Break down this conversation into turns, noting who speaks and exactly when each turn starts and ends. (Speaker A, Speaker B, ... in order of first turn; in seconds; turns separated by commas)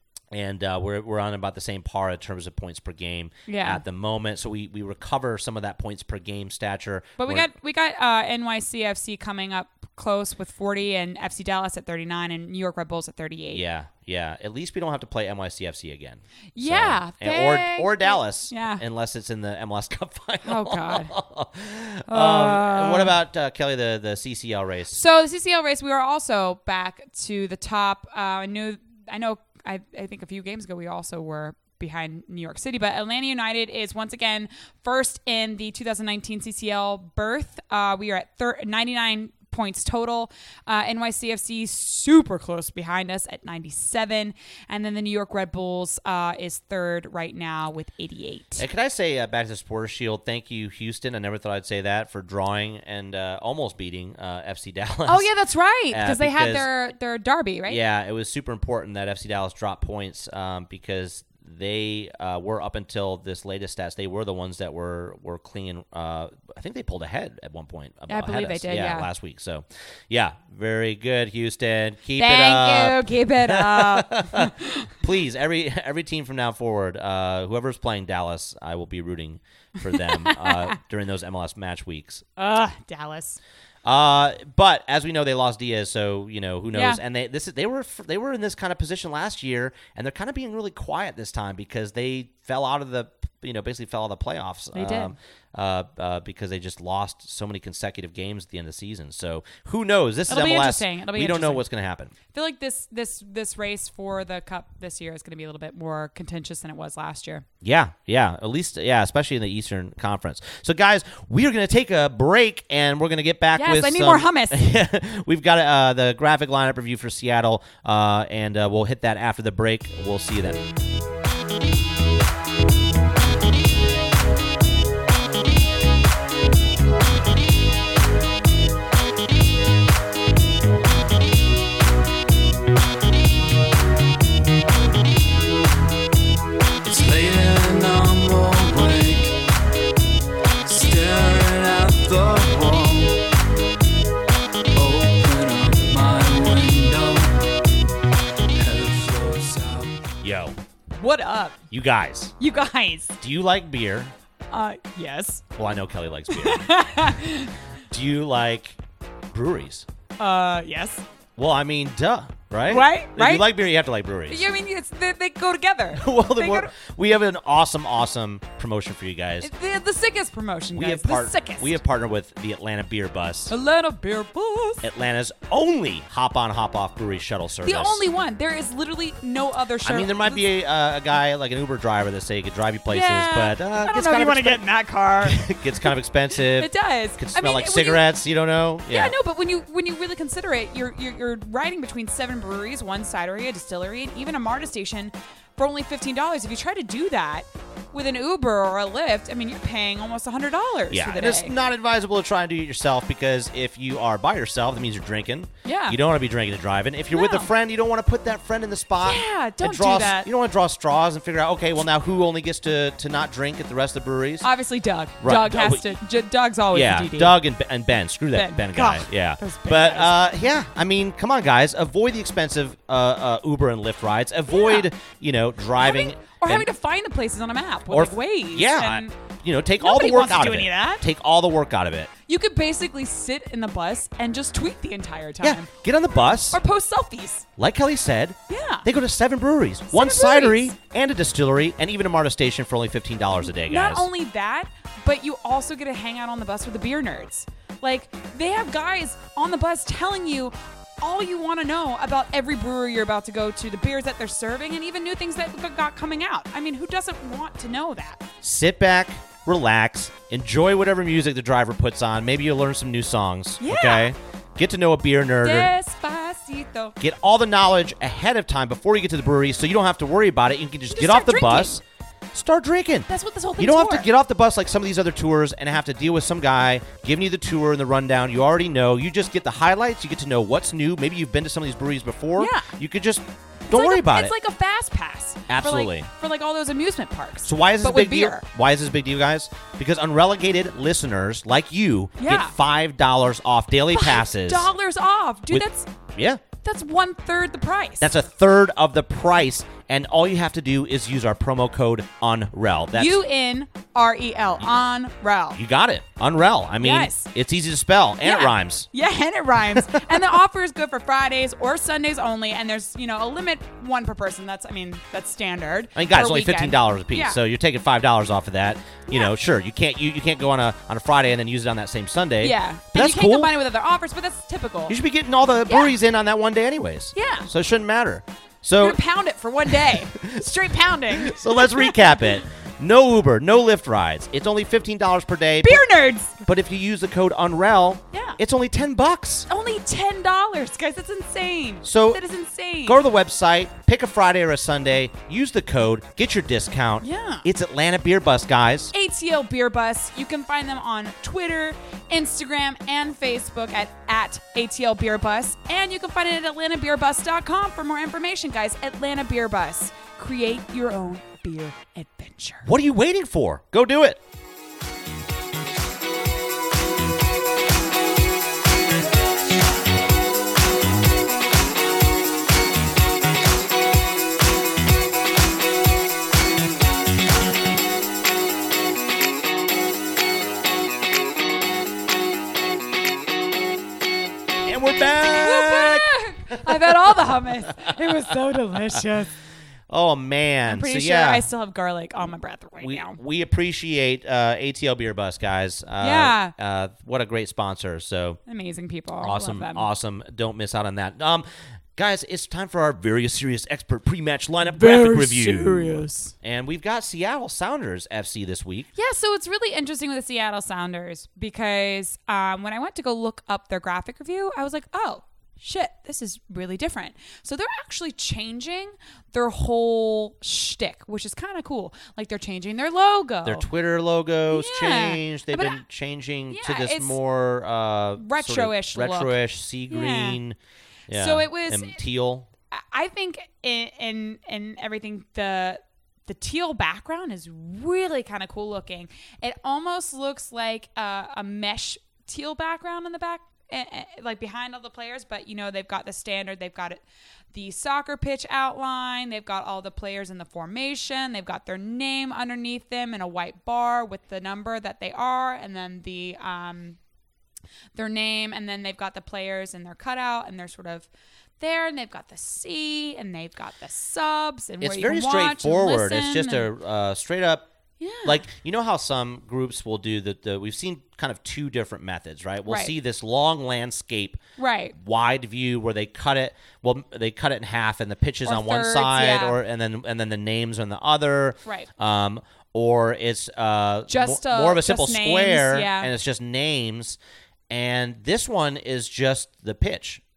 Speaker A: 0.3-7.5, Speaker B: 3.5-3.8, Speaker B: 7.2-13.6, Speaker A: 13.5-25.0, Speaker B: 16.6-18.8, Speaker B: 20.4-21.1, Speaker B: 22.1-23.1, Speaker B: 24.9-48.6, Speaker A: 48.6-55.3, Speaker B: 55.1-57.8, Speaker A: 55.9-56.7, Speaker A: 57.7-82.3, Speaker B: 68.1-69.1, Speaker B: 72.2-74.9, Speaker B: 79.9-80.8, Speaker B: 82.4-83.4, Speaker A: 83.8-102.1, Speaker B: 86.7-87.0, Speaker B: 94.7-95.1, Speaker B: 100.3-101.6, Speaker B: 102.3-107.5, Speaker A: 107.6-120.6, Speaker B: 113.5-114.7, Speaker C: 136.8-139.4, Speaker C: 140.7-143.3, Speaker C: 144.8-147.4, Speaker C: 148.6-150.1, Speaker A: 150.2-150.6, Speaker B: 151.0-151.6, Speaker A: 151.7-152.3, Speaker B: 152.4-153.1, Speaker A: 153.2-154.1, Speaker B: 154.5-155.4, Speaker A: 155.6-156.7, Speaker B: 156.3-157.5, Speaker A: 157.9-158.8, Speaker A: 159.3-159.9, Speaker B: 160.2-161.0, Speaker A: 161.4-164.4, Speaker B: 162.7-163.5, Speaker B: 164.3-166.7, Speaker A: 165.9-169.5, Speaker B: 169.4-171.8, Speaker A: 170.8-173.5, Speaker B: 173.5-174.8, Speaker A: 174.8-178.0, Speaker B: 177.6-180.5, Speaker A: 179.8-184.7, Speaker B: 182.9-185.9, Speaker A: 185.2-189.2, Speaker B: 186.6-188.0, Speaker B: 188.9-201.6, Speaker A: 200.9-214.5, Speaker B: 205.7-206.0, Speaker B: 207.1-207.5, Speaker B: 209.0-210.3, Speaker B: 214.4-217.4, Speaker A: 215.2-215.9, Speaker A: 216.7-226.7, Speaker B: 218.3-220.2, Speaker B: 224.5-224.9, Speaker B: 225.8-229.1, Speaker A: 227.9-232.1, Speaker B: 229.8-231.1, Speaker B: 232.3-235.7, Speaker A: 235.4-236.6, Speaker B: 236.3-237.4, Speaker A: 237.6-244.1, Speaker B: 238.5-238.9, Speaker B: 239.9-240.8, Speaker B: 243.4-258.2, Speaker A: 258.4-265.7, Speaker B: 263.6-264.2, Speaker B: 265.4-267.0, Speaker A: 267.0-284.4, Speaker B: 270.9-271.8, Speaker B: 273.1-274.1, Speaker B: 282.4-282.7, Speaker B: 283.7-288.4, Speaker A: 285.5-286.1, Speaker A: 287.4-294.7, Speaker B: 292.2-292.5, Speaker B: 293.9-295.9, Speaker A: 295.5-296.4, Speaker B: 296.6-298.1, Speaker A: 298.0-303.2, Speaker B: 302.9-305.6, Speaker A: 305.5-308.9, Speaker B: 306.8-307.3, Speaker B: 308.2-317.4, Speaker A: 309.7-310.1, Speaker A: 315.9-323.6, Speaker B: 322.4-325.0, Speaker A: 324.9-329.0, Speaker B: 325.7-325.9, Speaker B: 327.1-327.5, Speaker B: 328.8-332.3, Speaker A: 329.7-330.4, Speaker A: 331.1-335.8, Speaker B: 335.6-336.4, Speaker A: 336.4-339.5, Speaker B: 338.1-338.4, Speaker B: 339.5-343.0, Speaker A: 341.8-342.2, Speaker A: 342.9-348.9, Speaker B: 347.0-347.5, Speaker B: 348.9-362.7, Speaker A: 362.6-364.2, Speaker A: 384.6-387.9, Speaker B: 385.4-389.3, Speaker A: 389.9-391.5, Speaker B: 390.7-393.2, Speaker A: 392.8-398.4, Speaker B: 396.0-396.5, Speaker B: 398.5-399.9, Speaker A: 399.2-408.9, Speaker B: 404.6-406.3, Speaker B: 408.9-423.7, Speaker A: 423.4-430.6, Speaker B: 424.5-425.8, Speaker B: 426.5-427.2, Speaker B: 428.2-429.4, Speaker B: 429.9-430.4, Speaker A: 431.1-432.5, Speaker B: 431.1-432.0, Speaker B: 432.7-457.0, Speaker B: 458.0-461.1, Speaker B: 461.6-466.7, Speaker A: 464.8-467.7, Speaker B: 468.0-468.4, Speaker A: 468.2-474.4, Speaker B: 472.7-472.9, Speaker B: 474.6-475.0, Speaker A: 475.0-487.2, Speaker B: 478.4-479.6, Speaker B: 484.1-486.1, Speaker A: 487.7-490.2